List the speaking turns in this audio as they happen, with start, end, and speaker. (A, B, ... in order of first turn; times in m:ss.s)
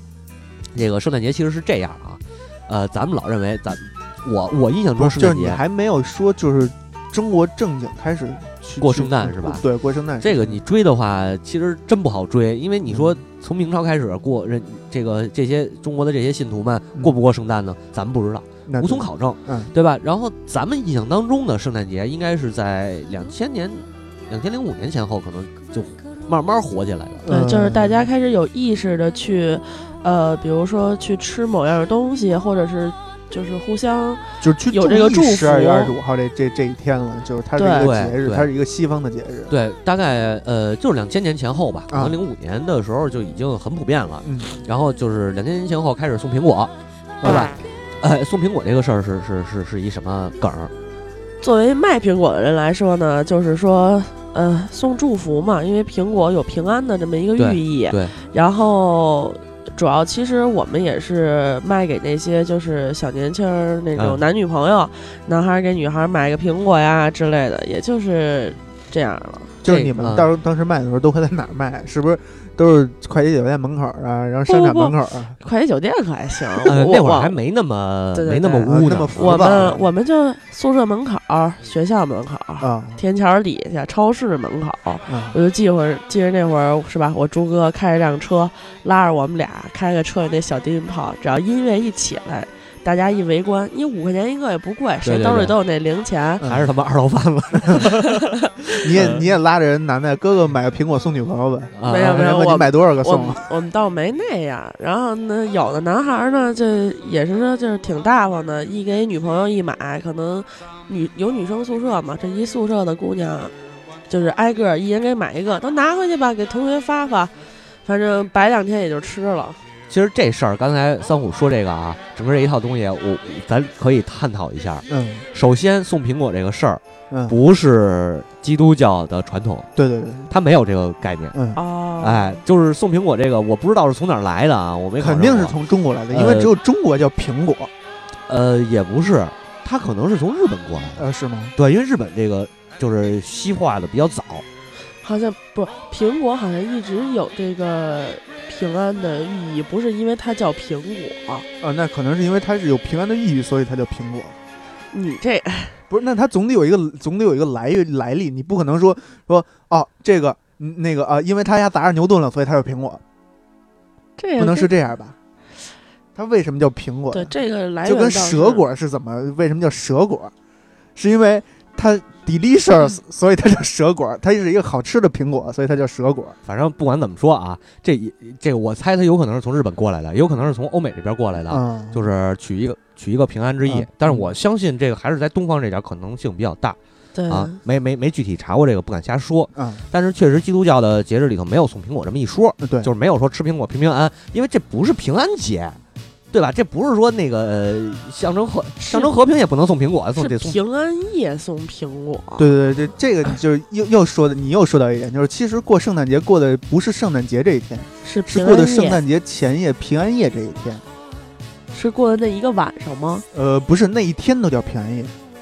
0:00.7-0:05.6 A
0:05.0-0:10.6 B
0:08.8-0:09.6 A
0:10.2-0:27.3 A
0:12.9-0:13.1 B
0:18.7-0:19.7 B
0:27.2-0:28.1 B
0:27.3-0:35.9 C
0:34.4-0:39.5 B
0:37.6-0:37.9 C
0:37.8-0:38.5 A
0:39.5-0:46.7 A
0:41.9-0:42.2 B
0:44.2-0:44.5 B
0:47.2-0:47.5 B
0:47.2-0:50.7 A
0:51.4-1:09.6 C
0:57.4-0:58.1 A
1:09.6-1:15.4 B
1:09.6-1:10.3 A
1:14.5-1:17.4 C
1:16.7-1:19.8 A
1:18.1-1:36.4 C
1:18.7-1:19.9 B
1:22.6-1:23.0 B
1:25.1-1:25.4 B
1:35.0-1:35.6 A
1:36.4-1:36.7 B
1:36.4-1:39.3 A
1:38.8-1:43.4 B
1:41.8-1:42.2 A
1:41.8-1:53.5 C
1:54.1-1:59.6 C
1:59.9-2:09.7 A
2:04.9-2:05.3 B
2:07.1-2:07.4 B
2:09.8-2:10.3 B
2:10.3-2:11.4 A
2:11.3-2:11.6 B
2:11.6-2:12.4 C
2:12.0-2:15.6 A
2:15.0-2:17.7 B
2:16.1-2:16.5 A
2:18.3-2:24.4 A
2:21.0-2:21.5 B
2:25.0-2:31.4 C
2:31.6-2:34.4 B
2:34.9-2:35.8 C
2:35.9-2:43.0 B
2:44.2-2:44.7 C
2:44.4-2:45.2 B
2:46.2-2:50.3 B
2:47.1-2:48.7 C
2:51.0-2:56.4 B
2:56.4-3:06.8 A
3:01.5-3:02.0 B
3:03.7-3:04.3 B
3:07.1-3:07.6 C
3:07.3-3:15.8 A
3:09.6-3:09.8 B
3:12.6-3:12.9 B
3:16.3-3:20.6 A
3:18.8-3:19.1 C
3:20.2-3:22.5 C
3:22.4-3:30.8 B
3:28.0-3:29.0 C
3:31.7-3:33.2 C
3:33.3-3:35.1 B